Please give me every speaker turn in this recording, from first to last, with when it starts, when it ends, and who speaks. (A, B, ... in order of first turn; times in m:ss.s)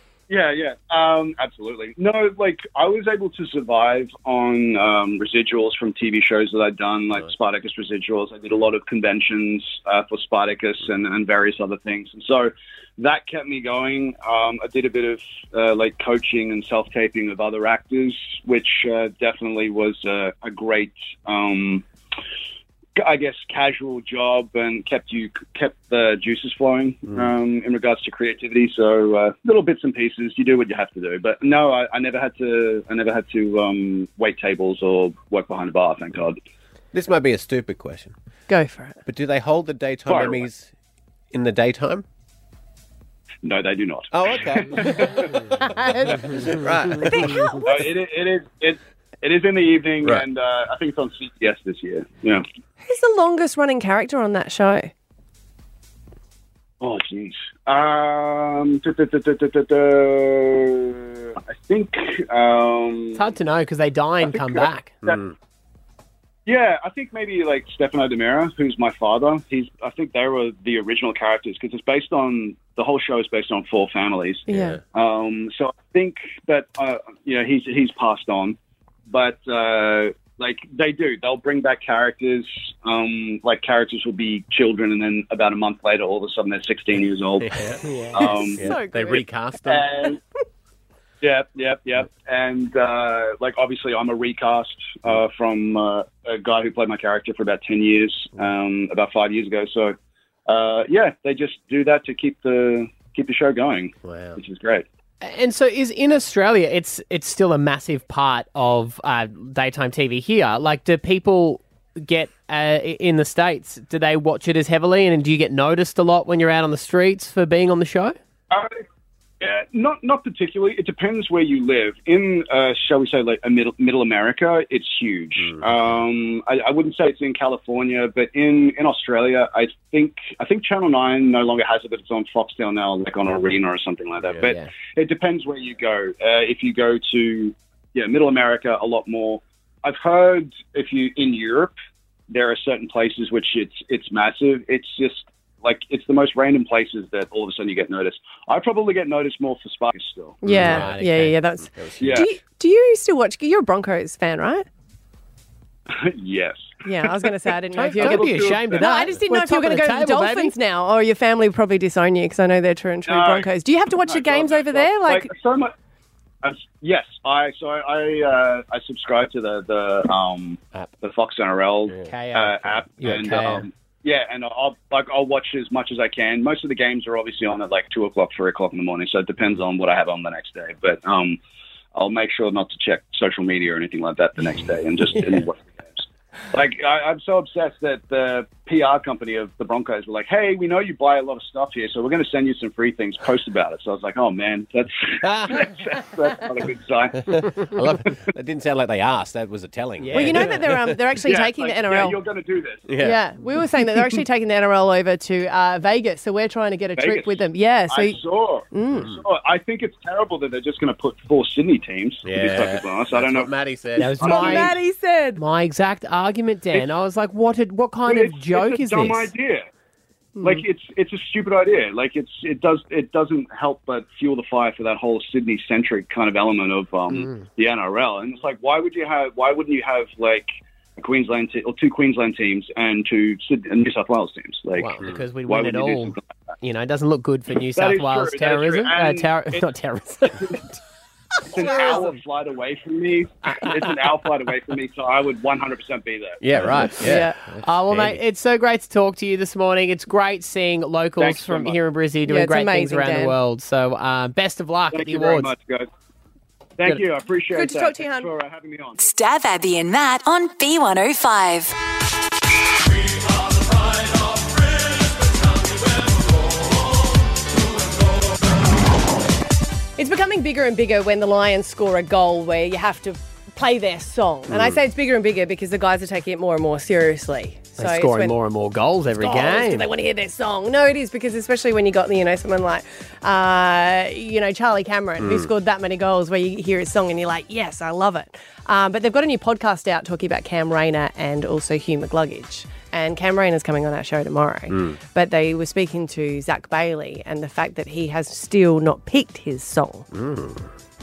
0:00.3-0:21.8 A
0:23.0-0:36.4 A
0:36.9-0:38.1 B
0:38.5-0:39.0 C
0:39.0-0:40.7 B
0:40.1-0:40.4 A
0:41.3-0:42.0 B
0:43.4-0:45.3 A
0:44.1-0:45.4 B
0:45.6-0:47.9 C
0:46.1-0:47.6 B
0:47.6-0:52.4 A
0:52.8-0:54.9 C
0:56.8-1:03.2 A
1:03.1-1:05.0 D
1:04.2-1:05.2 A
1:05.0-1:05.3 B
1:06.4-1:18.6 A
1:14.5-1:14.8 C
1:14.5-1:14.8 B
1:19.1-1:27.6 A
1:27.4-1:29.9 B
1:27.8-1:28.2 D
1:28.1-1:28.6 A
1:28.2-1:29.2 C
1:29.6-1:30.2 A
1:31.2-1:44.8 A
1:44.0-1:44.4 B
1:45.2-1:58.2 D
1:58.5-1:58.8 A
1:59.4-2:21.7 A
2:05.4-2:06.0 B
2:14.2-2:14.6 B
2:22.3-2:30.4 A
2:30.4-2:34.6 C
2:30.4-2:32.3 B
2:30.6-2:31.0 D
2:32.0-2:32.3 A
2:35.9-2:36.8 A
2:36.8-2:45.3 C
2:37.7-2:40.5 D
2:38.0-2:39.0 A
2:43.0-2:45.7 A
2:46.4-3:01.4 A
2:52.0-2:53.6 D
3:01.9-3:17.7 A
3:15.2-3:15.7 B
3:17.3-3:21.0 B
3:20.0-3:20.6 D
3:20.1-3:22.2 C
3:21.2-3:23.0 A
3:22.9-3:23.2 B
3:23.0-3:28.2 C
3:27.0-3:27.4 A
3:27.9-3:33.5 A
3:28.7-3:29.1 C
3:28.9-3:29.2 B
3:32.2-3:34.7 B
3:34.0-3:34.7 D
3:34.2-3:35.4 C
3:34.2-3:34.6 A
3:35.4-3:39.3 D
3:38.0-3:39.6 A
3:40.4-3:54.9 A
3:47.1-3:47.4 D
3:54.8-4:00.8 D
3:55.4-3:56.2 A
3:57.7-3:59.6 A
4:00.3-4:00.6 A
4:01.5-4:06.4 A
4:01.6-4:02.1 D
4:01.6-4:02.0 C
4:06.4-4:08.2 B
4:07.0-4:07.3 C
4:07.0-4:15.5 D
4:11.2-4:11.8 A
4:12.2-4:13.4 C
4:14.9-4:15.9 A
4:16.8-4:19.0 A
4:17.5-4:18.3 C
4:19.0-4:21.7 E
4:30.0-4:38.4 C
4:34.5-4:34.8 B
4:37.8-4:39.9 D
4:39.2-5:00.1 C
4:45.2-4:45.5 B
4:54.7-4:55.0 B
5:00.1-5:00.7 B